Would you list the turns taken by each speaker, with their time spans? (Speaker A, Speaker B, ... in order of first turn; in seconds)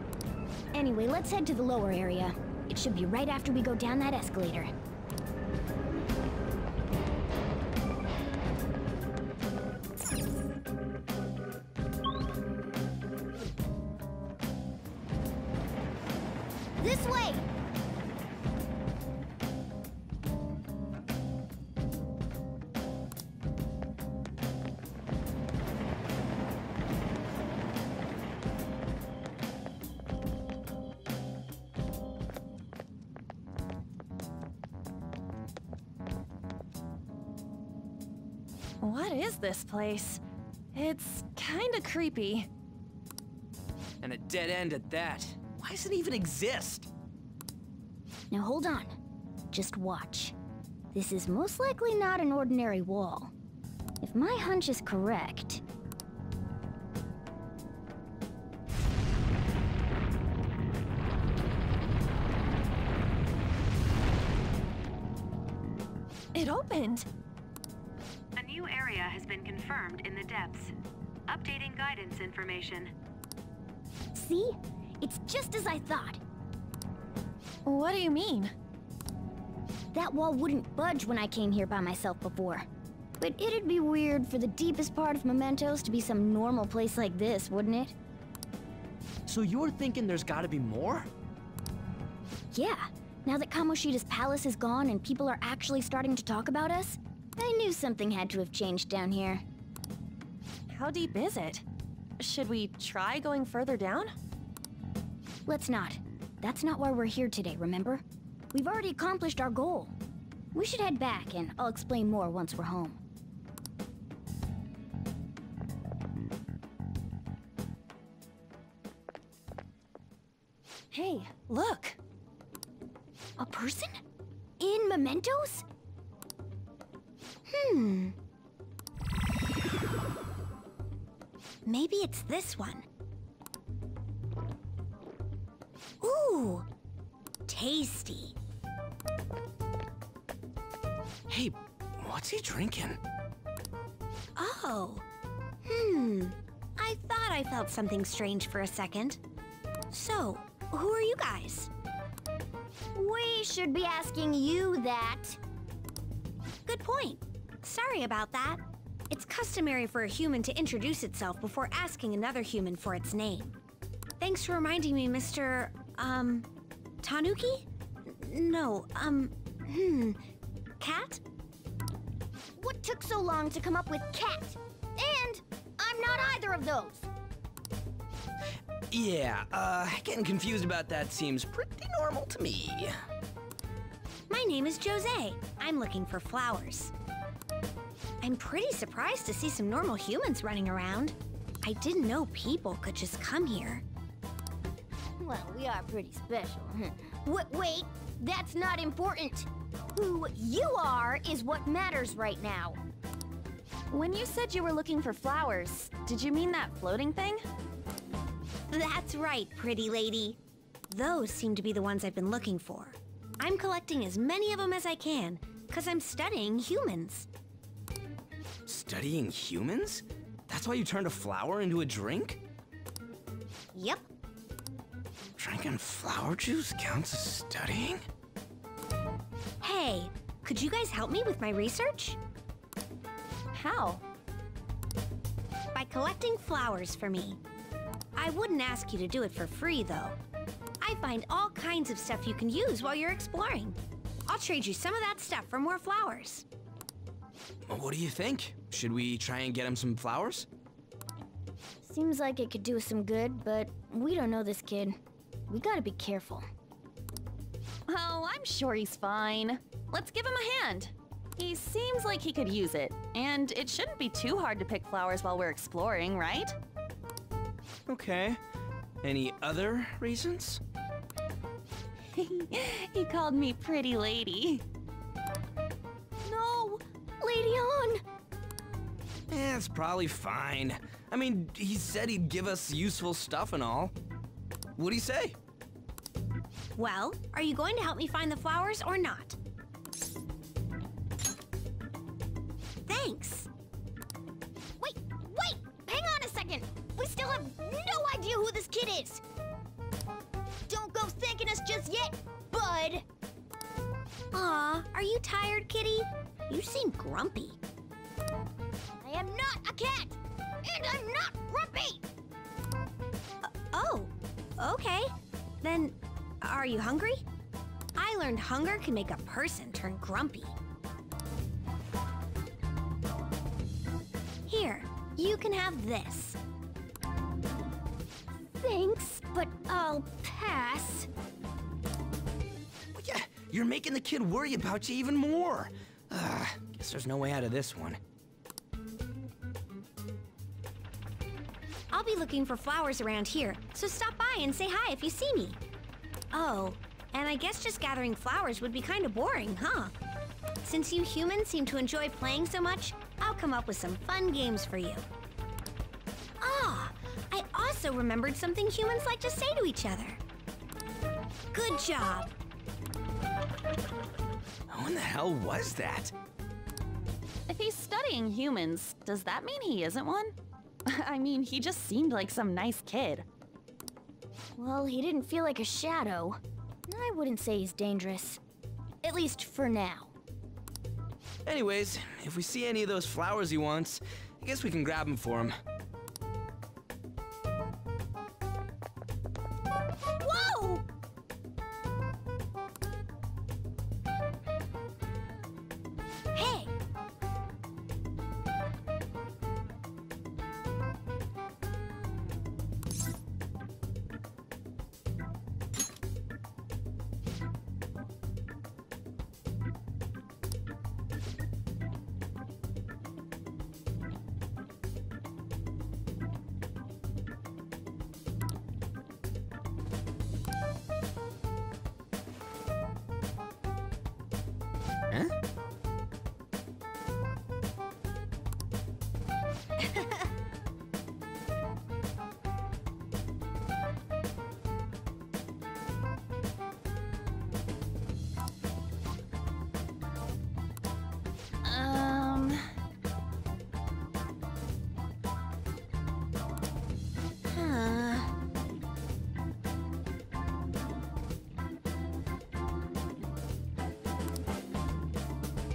Speaker A: 0.7-4.7, 16.8-17.4, 48.3-48.9, 49.5-50.3, 50.9-53.3, 54.0-55.6, 74.1-76.2, 79.9-82.7, 83.2-87.9, 92.5-99.4, 105.5-110.0, 110.5-113.0, 123.4-124.0, 124.6-125.6, 152.9-155.4, 172.6-177.1, 195.2-202.8, 251.8-256.4, 276.2-278.0, 294.8-299.2, 300.7-303.1, 309.0-312.1, 328.6-331.1, 374.6-378.4, 379.0-380.1
Speaker B: 38.8-40.2, 40.7-42.5, 66.3-67.1, 77.7-78.5, 100.7-101.6, 102.2-104.1, 120.9-122.0, 203.9-207.4, 233.5-234.0, 257.9-266.6, 272.1-274.6, 367.5-370.3, 370.9-373.2, 441.6-442.6
Speaker C: 44.0-46.9, 89.3-91.1, 141.3-143.0, 178.9-183.0, 218.7-222.4, 225.4-228.0, 247.7-250.5, 267.9-268.4, 269.0-270.6, 279.3-283.9, 284.8-285.4, 332.9-338.0, 364.7-366.1, 381.4-385.6
Speaker D: 68.4-70.7, 71.3-72.9
Speaker E: 127.5-128.1, 131.7-132.9, 136.0-136.7, 137.5-138.3, 144.4-145.1, 145.7-149.2, 149.9-151.7, 156.7-163.6, 164.2-166.5, 167.0-170.2, 170.8-171.2, 184.3-186.9, 188.2-193.8, 208.7-210.4, 210.9-217.3, 223.7-224.1, 229.6-232.2, 235.7-237.4, 238.1-240.2, 240.8-243.8, 244.3-246.4, 286.8-289.4, 292.9-293.5, 304.3-307.6, 313.4-317.2, 317.9-320.6, 324.5-326.4, 341.9-345.6, 346.3-350.0, 350.6-355.1, 356.4-360.2, 361.5-362.3, 390.2-390.8, 396.3-396.7, 447.4-448.3